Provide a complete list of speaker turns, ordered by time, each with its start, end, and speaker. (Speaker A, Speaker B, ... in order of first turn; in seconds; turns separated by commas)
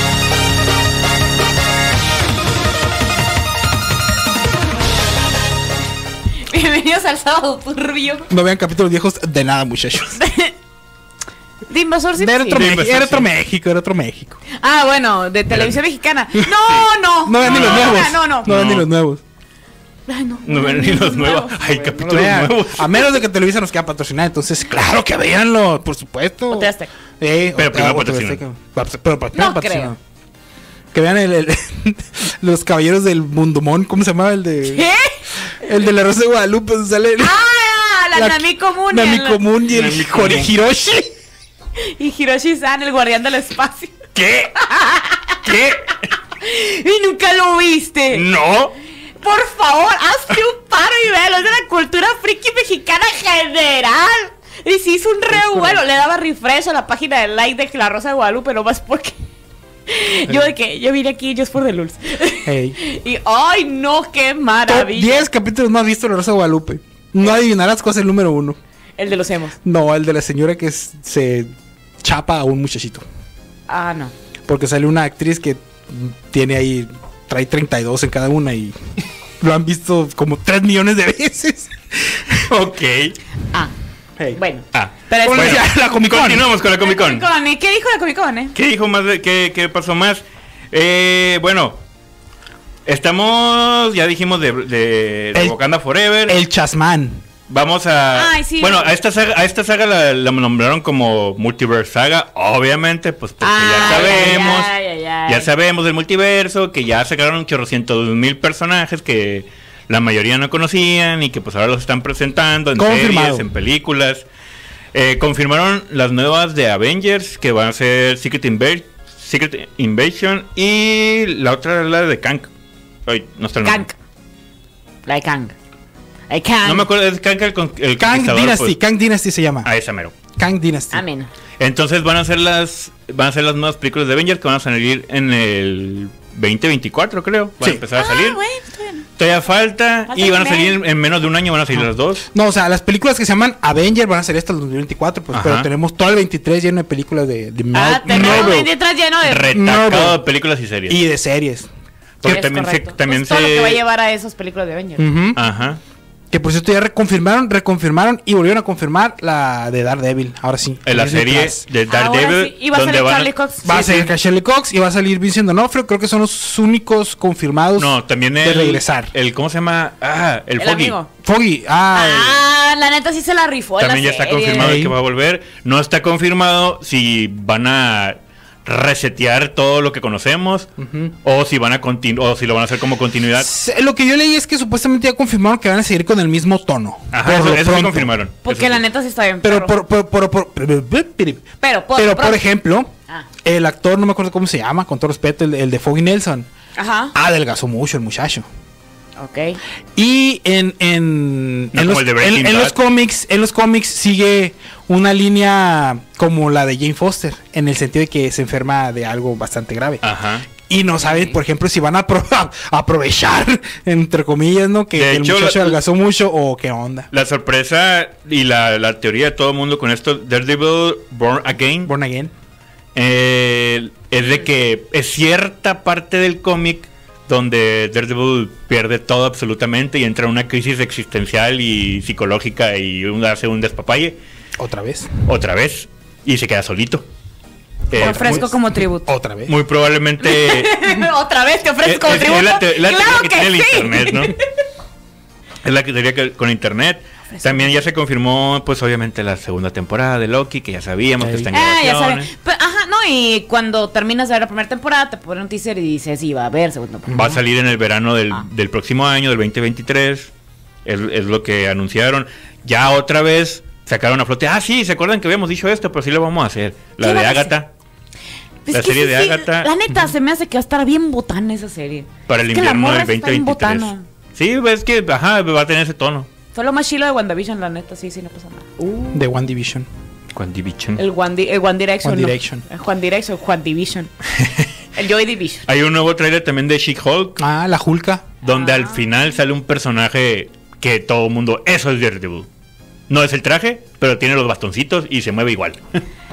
Speaker A: 6.5-8.3, Speaker B: 8.3-10.2, Speaker A: 10.1-10.5, Speaker A: 11.7-12.6, Speaker B: 12.2-14.4, Speaker C: 12.5-13.3, Speaker A: 14.5-18.5, Speaker C: 15.5-15.8, Speaker B: 17.2-19.2, Speaker C: 17.4-18.9, Speaker A: 20.1-21.6, Speaker C: 20.4-23.0, Speaker B: 21.7-30.0, Speaker A: 26.5-26.9, Speaker C: 27.6-28.4, Speaker A: 29.3-29.9, Speaker B: 30.9-34.9, Speaker A: 34.6-35.2, Speaker B: 35.6-37.4, Speaker A: 37.2-39.4, Speaker B: 38.1-41.1, Speaker C: 39.7-40.5, Speaker A: 41.8-44.0, Speaker C: 44.1-44.6, Speaker A: 44.6-45.4, Speaker C: 45.4-46.0, Speaker A: 46.4-48.3, Speaker C: 48.1-48.7, Speaker A: 49.2-59.1, Speaker B: 55.3-55.8, Speaker A: 59.9-65.3, Speaker B: 62.5-62.8, Speaker B: 64.7-68.6, Speaker A: 69.0-69.5, Speaker B: 69.6-71.5, Speaker B: 72.0-73.0, Speaker A: 73.7-74.1, Speaker B: 74.5-78.8, Speaker B: 79.4-82.5, Speaker C: 82.5-83.2, Speaker A: 84.3-85.6, Speaker C: 84.7-87.2, Speaker B: 85.2-86.5, Speaker A: 86.8-88.5, Speaker C: 88.5-91.8, Speaker C: 92.8-96.4, Speaker B: 96.3-97.2, Speaker C: 97.5-104.7, Speaker A: 98.1-98.9, Speaker A: 103.4-105.5, Speaker C: 105.2-114.2, Speaker B: 112.8-113.5, Speaker C: 114.9-122.5, Speaker C: 123.0-123.9, Speaker A: 123.6-124.0, Speaker A: 125.0-125.5, Speaker A: 126.3-126.9, Speaker C: 126.6-128.8, Speaker B: 128.0-129.7, Speaker C: 129.6-130.1, Speaker B: 130.3-131.0, Speaker A: 130.9-131.3, Speaker C: 131.6-138.4, Speaker A: 137.9-139.0, Speaker C: 139.2-142.3, Speaker A: 140.1-140.8, Speaker B: 142.3-148.7, Speaker C: 145.3-145.7, Speaker A: 147.7-149.6, Speaker C: 148.1-148.6, Speaker C: 149.2-151.0, Speaker B: 149.5-150.2, Speaker B: 150.9-151.7, Speaker C: 152.2-153.8, Speaker A: 152.2-155.1, Speaker B: 155.0-155.4, Speaker C: 155.3-155.8, Speaker B: 156.3-161.6, Speaker C: 160.8-164.0, Speaker A: 161.9-164.1, Speaker B: 163.6-169.1, Speaker C: 167.8-170.9, Speaker A: 170.6-171.1, Speaker B: 171.2-172.4, Speaker A: 171.9-174.8, Speaker C: 173.8-180.7, Speaker B: 174.5-174.9, Speaker B: 180.8-181.1, Speaker C: 181.2-183.5, Speaker B: 183.4-188.1, Speaker C: 187.1-188.8, Speaker A: 188.4-189.8, Speaker B: 189.4-192.9, Speaker A: 191.6-192.4, Speaker B: 193.4-196.5, Speaker A: 196.8-197.1, Speaker B: 197.1-198.5, Speaker A: 199.2-199.6, Speaker B: 199.9-210.0, Speaker C: 201.7-202.8, Speaker C: 210.0-210.5, Speaker B: 210.7-217.1, Speaker A: 211.0-211.3, Speaker C: 214.9-215.8, Speaker C: 217.1-221.9, Speaker B: 221.9-222.3, Speaker C: 222.9-234.2, Speaker B: 234.6-235.1, Speaker C: 235.2-237.0, Speaker C: 237.9-238.5, Speaker B: 237.9-238.5, Speaker A: 237.9-239.1, Speaker B: 239.1-239.5, Speaker C: 239.5-240.8, Speaker A: 240.2-244.4, Speaker C: 241.8-244.3, Speaker C: 245.6-252.3, Speaker A: 247.3-247.7, Speaker B: 251.2-251.5, Speaker A: 251.5-257.4, Speaker B: 257.1-257.4, Speaker C: 257.1-260.3, Speaker C: 260.8-267.7, Speaker A: 267.0-267.5, Speaker A: 268.6-274.0, Speaker C: 268.7-269.7, Speaker C: 272.3-276.3, Speaker A: 276.5-279.3, Speaker B: 279.1-279.9, Speaker C: 280.3-281.0, Speaker A: 281.0-284.1, Speaker B: 282.0-282.6, Speaker A: 284.9-285.6, Speaker C: 285.7-287.4, Speaker B: 287.4-288.3, Speaker A: 288.4-289.0, Speaker C: 288.4-292.5, Speaker C: 293.1-296.0